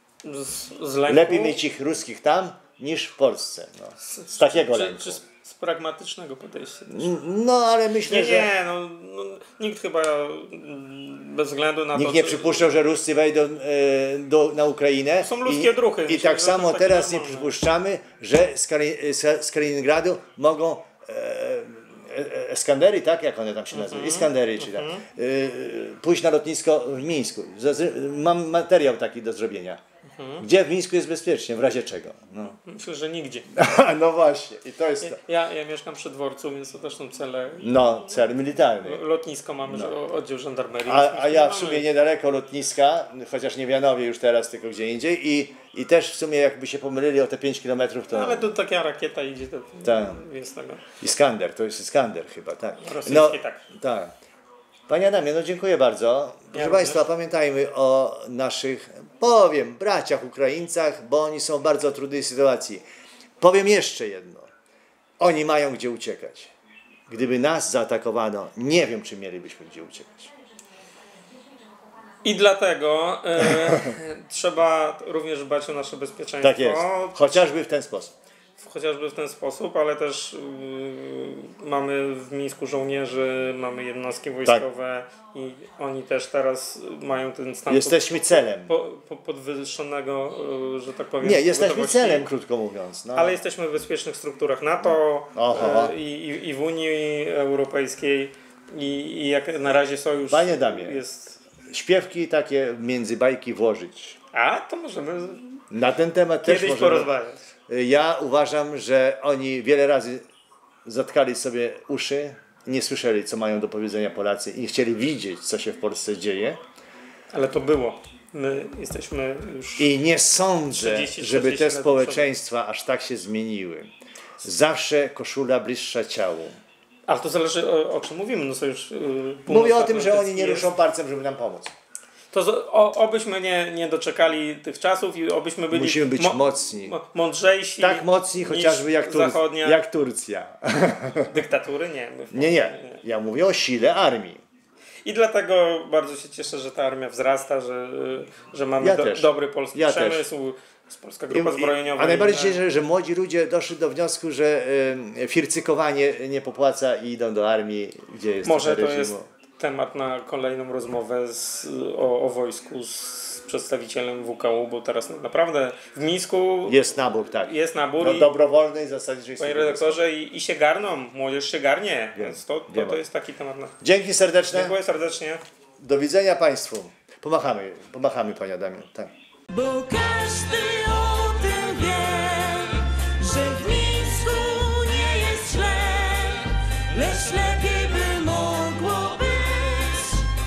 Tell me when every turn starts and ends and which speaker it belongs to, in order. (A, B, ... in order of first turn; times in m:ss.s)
0:00.2-0:01.6 A
0:01.1-0:05.2 B
0:04.0-0:07.1 A
0:06.9-0:08.5 B
0:08.1-0:12.7 A
0:11.9-0:29.8 B
0:15.2-0:17.5 A
0:23.7-0:25.1 A
0:30.2-0:30.5 A
0:30.4-0:32.6 B
0:32.6-0:33.5 A
0:33.5-0:35.2 B
0:35.0-0:37.8 A
0:37.6-0:39.0 B
0:38.8-0:41.8 A
0:39.6-0:39.9 B
0:40.8-0:48.5 B
0:48.1-0:50.8 A
0:49.8-0:50.2 B
0:51.0-0:54.1 B
0:52.8-0:53.6 A
0:54.9-1:02.8 B
0:56.5-0:57.0 A
1:03.4-1:04.5 B
1:05.2-1:06.5 B
1:07.1-1:10.3 B
1:12.2-1:17.4 A
1:13.5-1:13.9 B
1:16.4-1:18.1 B
1:18.6-1:32.3 A
1:27.7-1:28.7 B
1:31.2-1:33.4 B
1:33.2-1:41.4 A
1:35.3-1:36.0 B
1:40.3-1:41.0 B
1:41.7-1:44.2 B
1:44.3-1:45.6 A
1:45.7-1:47.1 B
1:46.4-1:47.4 A
1:47.7-1:50.2 B
1:50.8-1:56.6 B
1:57.3-1:59.9 A
1:59.8-2:03.9 B
2:00.7-2:02.3 A
2:04.4-2:06.6 B
2:07.1-2:10.7 A
2:09.5-2:11.7 B
2:12.3-2:19.8 A
2:15.7-2:17.0 B
2:17.8-2:21.3 B
2:21.3-2:23.0 A
2:22.3-2:24.4 B
2:25.1-2:32.6 A
2:28.8-2:30.3 B
2:31.3-2:39.3 B
2:38.4-2:46.8 A
2:46.7-2:50.1 B
2:47.4-2:48.3 A
2:49.4-2:53.8 A
2:52.2-2:53.0 B
2:53.8-2:54.8 B
2:54.5-2:55.4 A
2:55.8-2:59.1 B
2:59.5-3:10.2 C